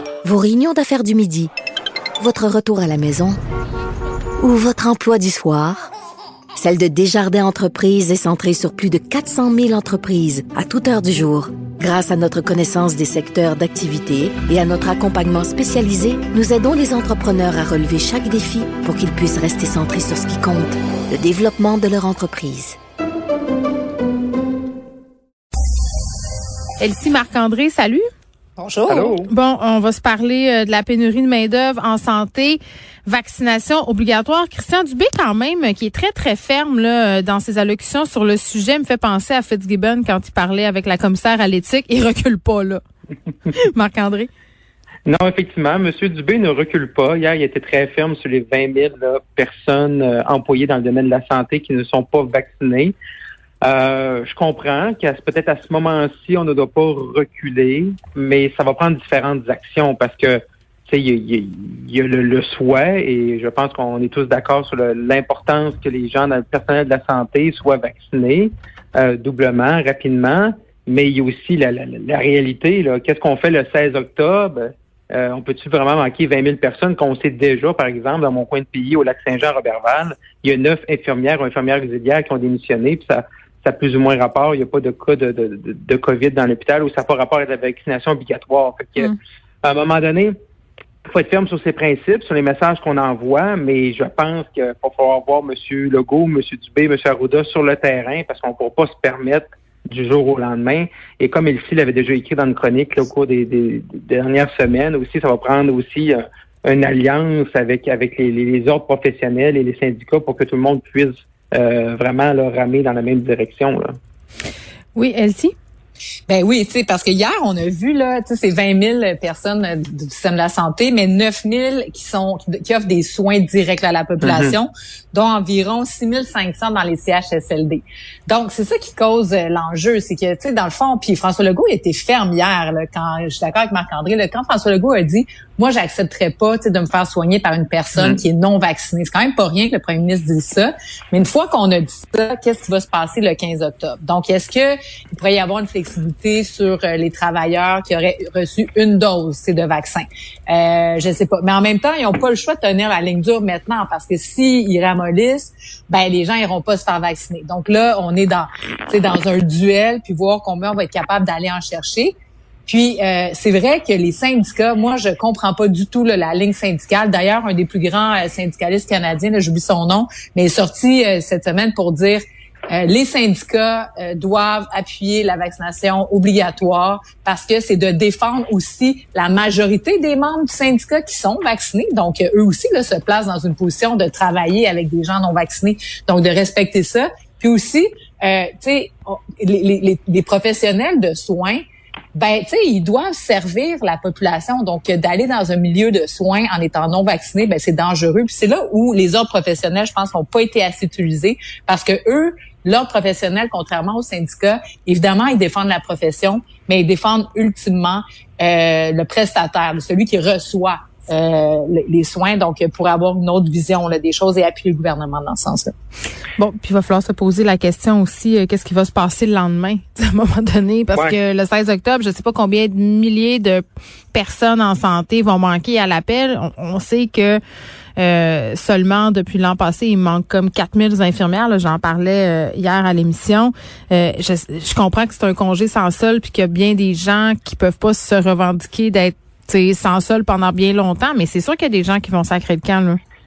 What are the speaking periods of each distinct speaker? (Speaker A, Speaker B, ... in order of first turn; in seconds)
Speaker A: 0.2-1.5, 2.2-3.4, 4.4-5.9, 6.5-22.8
Speaker B: 26.8-28.0, 29.2-42.8, 43.5-44.3, 115.0-115.5, 216.4-227.4, 228.0-243.0
Speaker C: 28.6-29.2, 116.3-162.1, 162.7-191.6, 192.2-215.7
Speaker D: 28.9-29.3, 45.1-53.0, 53.6-90.3, 91.1-114.0, 124.2-124.5, 137.9-138.2